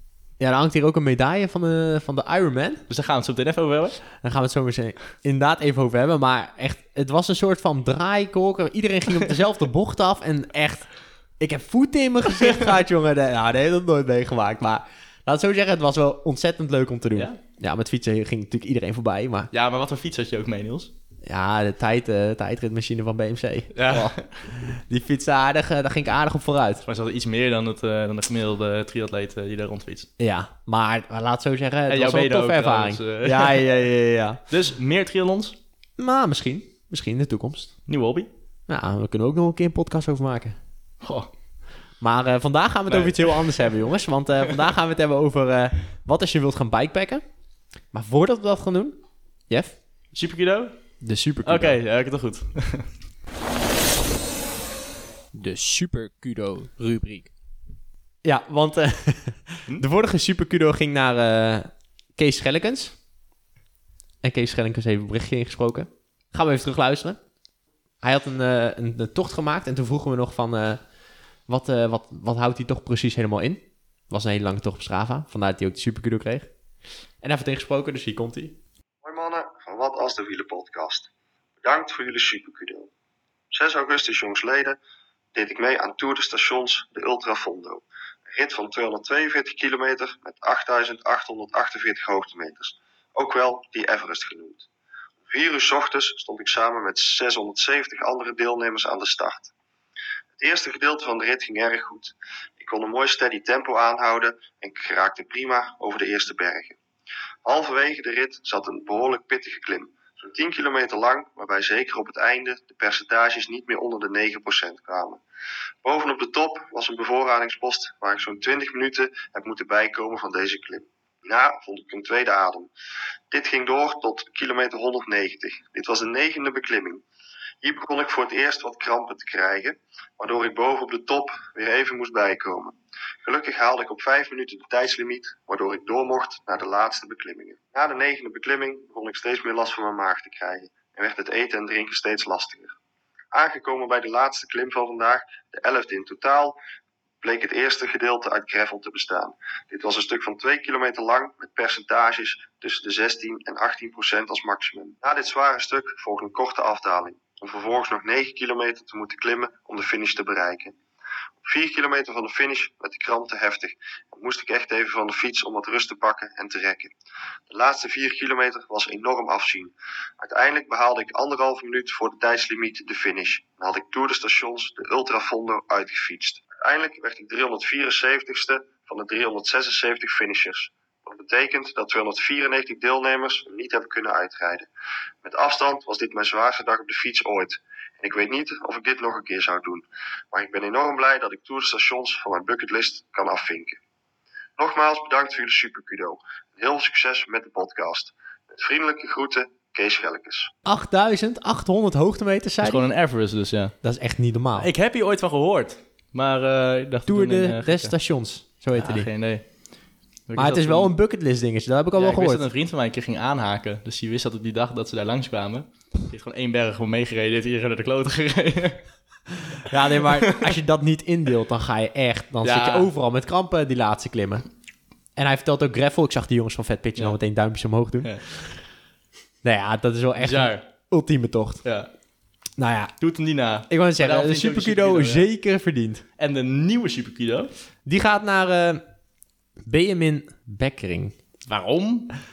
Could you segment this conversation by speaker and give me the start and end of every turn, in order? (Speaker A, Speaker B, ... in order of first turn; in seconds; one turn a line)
Speaker A: 0.4-2.8
Speaker B: 2.9-4.0
Speaker A: 4.2-19.5
Speaker B: 19.5-20.9
Speaker A: 21.2-26.8
Speaker B: 23.8-24.5
Speaker B: 26.9-30.1
Speaker A: 30.2-34.4
Speaker B: 31.9-33.6
Speaker B: 34.5-35.6
Speaker A: 36.0-37.7
Speaker B: 37.9-38.3
Speaker A: 38.7-40.6
Speaker B: 41.0-41.3
Speaker A: 42.0-47.2
Speaker B: 42.9-43.7
Speaker A: 47.9-49.0
Speaker A: 49.5-49.8
Speaker B: 50.1-52.9
Speaker C: 51.0-51.8
Speaker C: 55.3-57.3
Speaker A: 58.2-63.0
Speaker A: 64.2-67.2
Speaker A: 68.0-70.8
Speaker A: 71.5-76.5
Speaker A: 77.2-78.6
Speaker D: 79.0-81.1
Speaker D: 81.6-82.9
Speaker D: 83.5-84.8
Speaker D: 85.3-94.7
Speaker D: 95.3-99.5
Speaker D: 100.4-106.8
Speaker D: 107.5-115.2
Speaker D: 115.8-122.7
Speaker D: 123.3-127.0
Speaker D: 127.6-142.7
Speaker D: 143.3-146.6
Speaker D: 147.2-160.8
Speaker D: 161.4-166.9
Speaker D: 167.5-184.7
Speaker D: 185.2-193.8
Speaker D: 194.6-200.5
Speaker A: 200.7-202.8
Speaker B: 202.6-203.8
Speaker A: 203.8-204.7
Speaker B: 204.6-208.0
Speaker A: 207.1-209.1
Speaker B: 208.8-209.6
Speaker B: 210.3-210.9
Speaker A: 210.4-212.4
Speaker B: 212.0-218.9
Speaker A: 219.7-224.4
Speaker B: 222.4-222.9
Speaker A: 225.2-228.5
Speaker A: 229.4-231.6
Speaker B: 230.2-230.7
Speaker B: 231.6-231.9
Speaker A: 232.6-232.9
Speaker B: 233.0-235.2
Speaker A: 233.7-236.0
Speaker B: 236.2-237.5
Speaker A: 237.9-238.8
Speaker A: 239.7-241.2
Speaker B: 241.5-242.1